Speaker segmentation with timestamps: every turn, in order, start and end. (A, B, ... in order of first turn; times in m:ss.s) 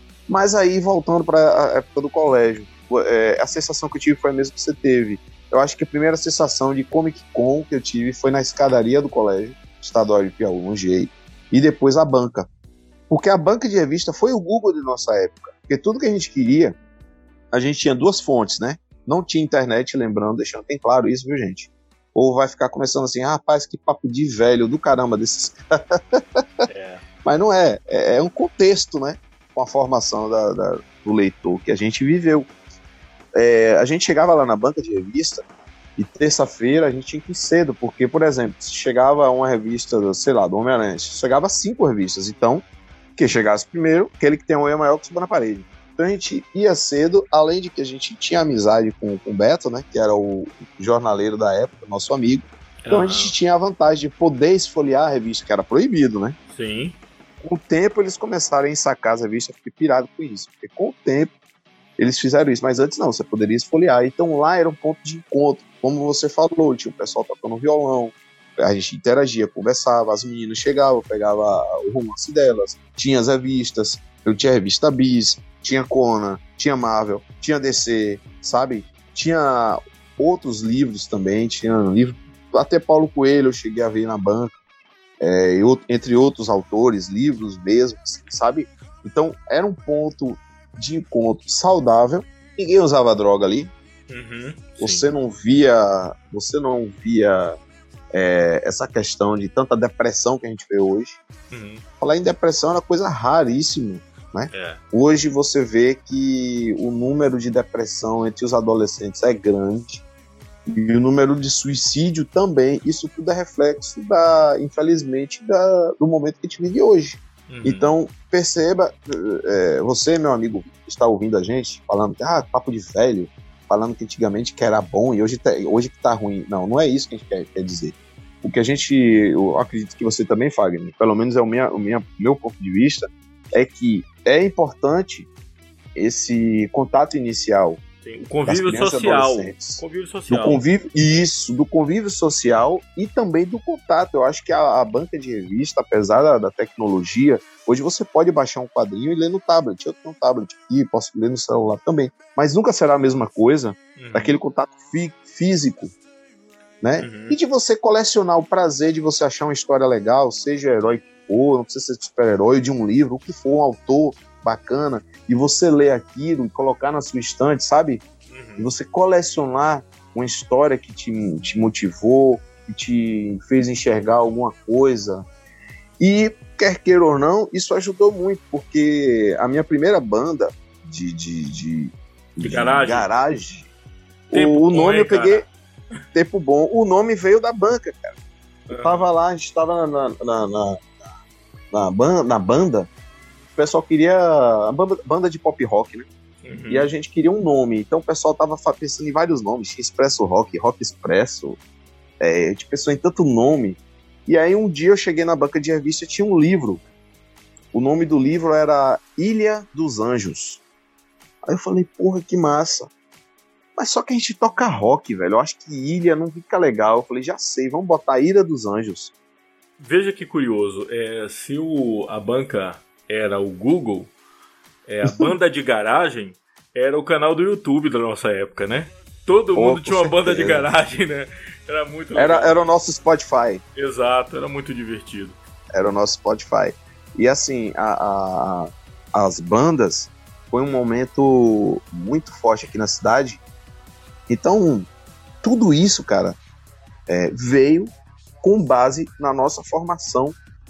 0:00.3-0:12.5 A
0:13.1-0:16.8 A
0:17.5-0:26.4 A
0:26.7-0:27.0 B
0:27.2-0:32.5 A
0:33.4-0:35.4 A
0:36.0-0:42.6 A
0:43.2-0:56.4 A
0:52.8-0:53.3 B
0:56.5-0:57.0 B
0:57.4-1:01.3 A
1:02.0-1:24.5 A
1:25.2-1:33.7 A
1:34.1-1:35.1 B
1:34.8-1:37.6 A
1:38.1-1:41.2 A
1:41.5-1:41.8 B
1:42.0-1:50.0 A
1:44.5-1:44.8 B
1:50.7-2:15.3 A
1:57.5-1:57.9 B
2:16.0-2:17.8 A
2:18.0-2:20.6 B
2:18.5-2:35.9 A
2:34.0-2:34.4 B
2:36.8-2:48.0 A
2:37.0-2:37.4 B
2:48.3-2:48.7 B
2:48.6-2:55.2 A
2:56.0-3:03.7 A
3:02.4-3:03.1 B
3:04.3-3:05.5 A
3:04.3-3:05.5 B
3:06.1-3:08.1 A
3:08.7-3:09.1 B
3:08.7-3:11.0 A
3:11.7-3:12.9 A
3:13.6-3:16.1 A
3:16.4-3:16.9 B
3:16.7-3:21.6 A
3:22.2-3:26.8 A
3:27.7-3:30.6 A
3:31.5-3:32.9 A
3:33.8-3:39.1 A
3:39.8-3:44.1 B
3:44.9-3:52.6 B
3:45.0-3:45.3 A
3:49.6-3:50.7 A
3:52.2-3:53.6 A
3:53.8-3:55.4 B
3:55.7-4:03.4 A
4:04.3-4:04.9 A
4:05.4-4:06.4 A
4:07.1-4:10.4 A